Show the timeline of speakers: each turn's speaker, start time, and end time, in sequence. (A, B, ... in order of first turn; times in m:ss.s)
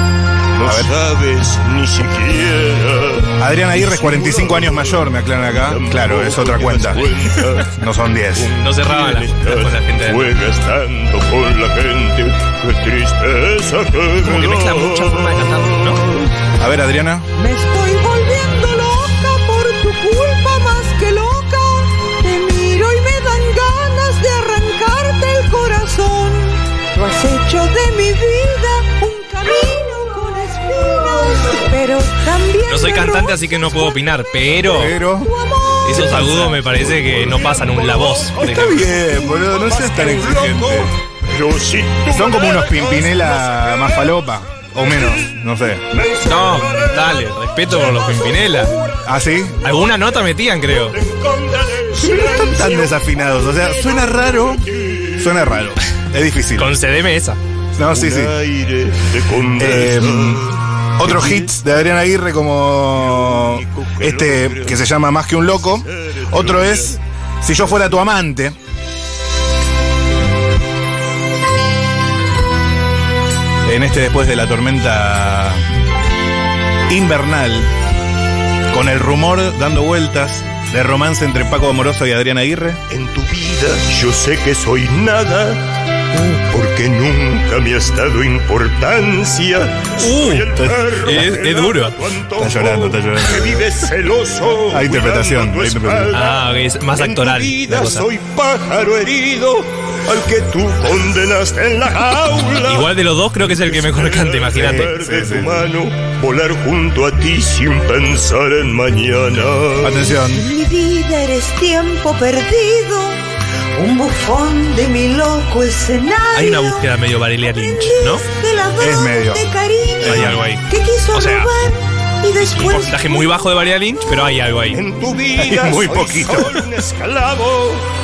0:00.6-0:07.8 A
0:00.6-0:00.9 B
0:03.4-0:07.1 B
0:07.7-0:08.5 B
0:08.3-0:16.3 A
0:08.6-0:10.3 C
0:14.2-0:16.0 C
0:16.6-0:17.3 B
0:17.4-0:34.0 D
0:32.7-0:35.0 C
0:34.7-0:35.3 B
0:35.2-0:36.3 D
0:35.8-0:38.8 C
0:36.0-0:36.6 B
0:36.9-0:44.1 A
0:38.4-0:40.9 B
0:42.1-0:45.9 B
0:45.9-0:47.2 A
0:46.2-0:48.7 C
0:47.8-0:49.0 A
0:49.0-0:49.6 B
0:49.6-0:51.0 C
0:50.7-0:55.6 A
0:52.0-0:56.7 B
0:56.6-0:57.4 C
0:57.8-0:58.4 B
0:57.9-1:01.5 A
0:59.6-1:08.6 B
1:03.0-1:04.9 A
1:05.6-1:07.0 A
1:13.6-1:15.6 B
1:16.9-1:17.7 B
1:18.7-1:22.8 B
1:22.9-1:50.0 A
1:30.0-1:32.0 C
1:32.4-1:33.7 B
1:34.7-1:36.1 B
1:36.1-1:38.1 C
1:42.7-1:44.9 C
1:44.6-1:45.7 B
1:49.8-1:50.4 B
1:50.0-1:53.2 D
1:53.8-2:03.4 D
1:56.3-1:58.2 C
1:58.8-1:59.4 B
2:00.0-2:00.4 B
2:00.0-2:01.5 C
2:02.4-2:04.8 C
2:04.7-2:07.8 A
2:05.4-2:06.5 B